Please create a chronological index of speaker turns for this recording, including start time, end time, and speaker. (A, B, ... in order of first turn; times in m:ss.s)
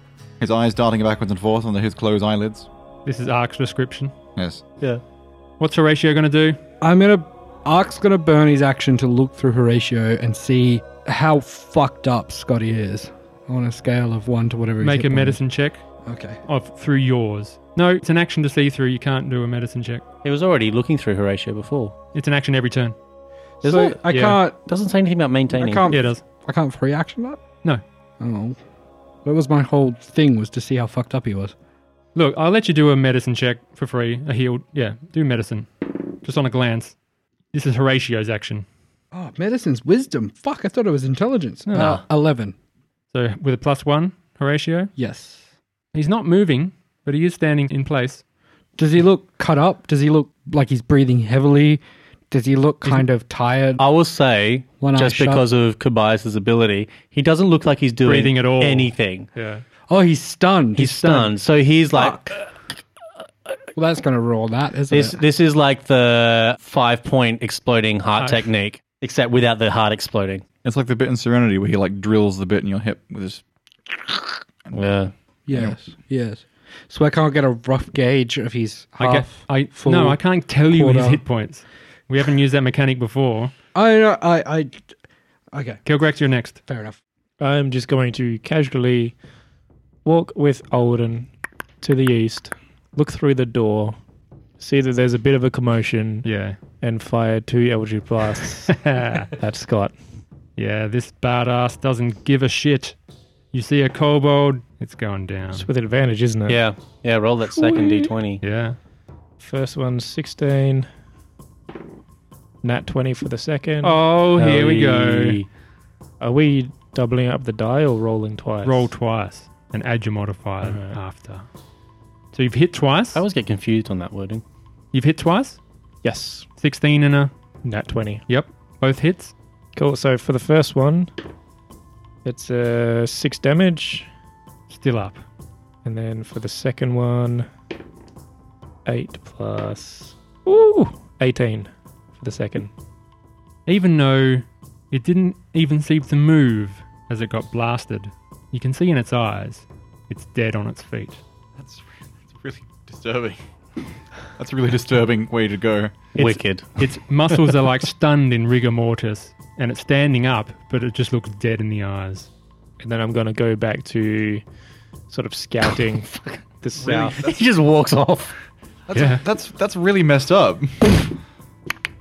0:00.4-0:02.7 A
0:03.0-0:04.1 B
0:04.4-0:04.6 A
0:05.6-0:06.6 B
0:06.8-0:15.4 C
0:14.8-0:15.8 B
0:16.0-0:16.4 C
0:16.5-0:20.0 B
0:20.2-0:21.9 D
0:22.1-0:22.9 B
0:23.6-0:24.6 C
0:23.6-0:25.9 D
0:24.1-0:24.4 B
0:25.6-0:27.4 C
0:25.9-0:26.2 B
0:28.2-0:28.6 C
0:29.2-0:31.5 C
0:32.1-0:36.9 B
0:37.5-0:38.6 B
0:39.1-0:42.5 C
0:41.6-0:42.0 B
0:43.1-0:44.9 B
0:45.0-0:45.4 C
0:45.9-0:48.2 B
0:48.8-0:53.8 C
0:53.8-0:59.3 D
0:54.8-0:55.4 C
0:58.0-0:59.6 B
0:59.9-1:01.3 C
1:00.8-1:02.4 D
1:01.9-1:02.3 C
1:03.7-1:05.2 C
1:04.9-1:10.4 D
1:08.2-1:08.4 B
1:10.6-1:14.8 A
1:14.7-1:15.1 D
1:15.5-1:21.2 C
1:15.5-1:15.8 A
1:19.0-1:23.5 B
1:23.7-1:24.8 C
1:25.5-1:25.8 C
1:25.8-1:26.6 B
1:26.7-1:27.0 C
1:27.4-1:29.2 E
1:30.0-1:34.0 E
1:34.6-1:36.3 E
1:36.2-1:36.6 B
1:36.8-1:39.9 E
1:38.7-1:39.3 B
1:40.6-1:43.0 B
1:43.5-1:45.7 B
1:45.5-1:46.6 E
1:46.5-1:48.4 D
1:47.7-1:48.0 E
1:48.4-1:48.8 B
1:49.4-1:50.9 E
1:52.6-1:54.0 E
1:53.8-1:55.4 B
1:54.3-1:55.5 D
1:56.2-1:58.9 E
1:58.6-2:01.4 B
2:00.6-2:00.9 E
2:02.3-2:03.2 B
2:03.1-2:04.4 D
2:04.9-2:05.6 B
2:06.0-2:06.5 E
2:06.6-2:07.3 B
2:07.6-2:08.2 E
2:08.3-2:09.3 B
2:09.7-2:11.1 E
2:12.2-2:14.1 E
2:14.7-2:15.2 B
2:15.8-2:17.5 E
2:18.8-2:22.7 E
2:23.6-2:31.2 B
2:31.6-2:33.4 A
2:34.4-2:36.0 A
2:36.1-2:37.4 D
2:36.1-2:42.3 B
2:42.8-2:44.4 E
2:45.1-2:47.1 E
2:46.8-2:47.4 A
2:46.8-2:48.4 D
2:48.9-2:51.1 A
2:48.9-2:49.2 B